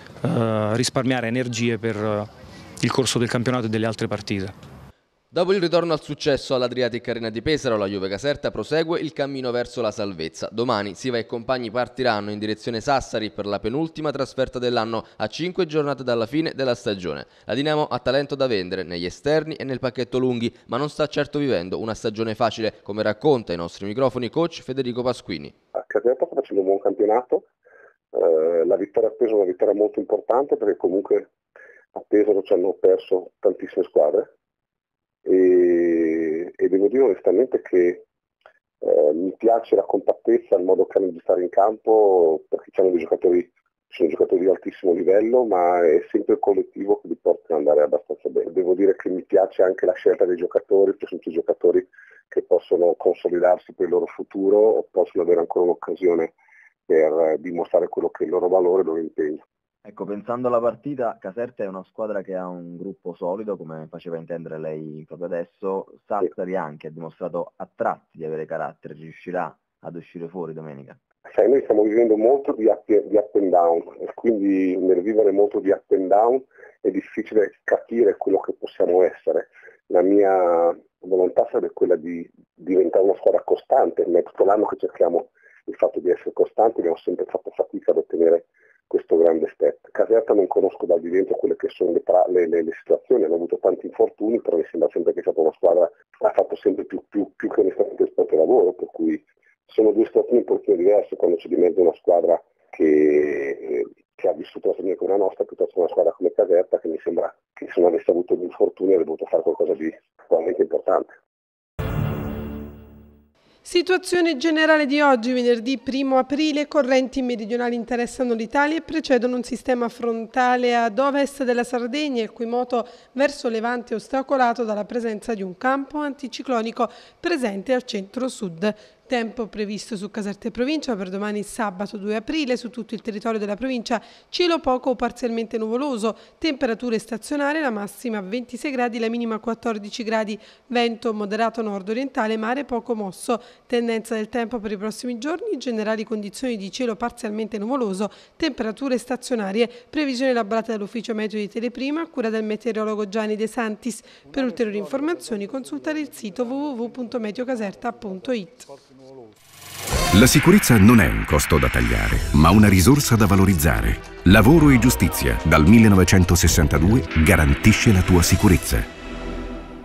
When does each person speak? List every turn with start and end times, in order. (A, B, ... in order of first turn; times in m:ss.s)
0:00.3-0:02.2 A
0:02.8-0:04.4 A
0:05.3-0:25.5 B
0:25.8-0:27.4 C
0:28.1-0:31.3 C
0:32.0-0:34.3 C
0:35.2-0:38.0 C
0:38.8-0:56.3 C
0:56.9-0:59.4 C
0:59.9-1:11.0 D
1:11.3-1:51.1 C
1:53.6-2:38.7 E
2:40.1-2:48.9 F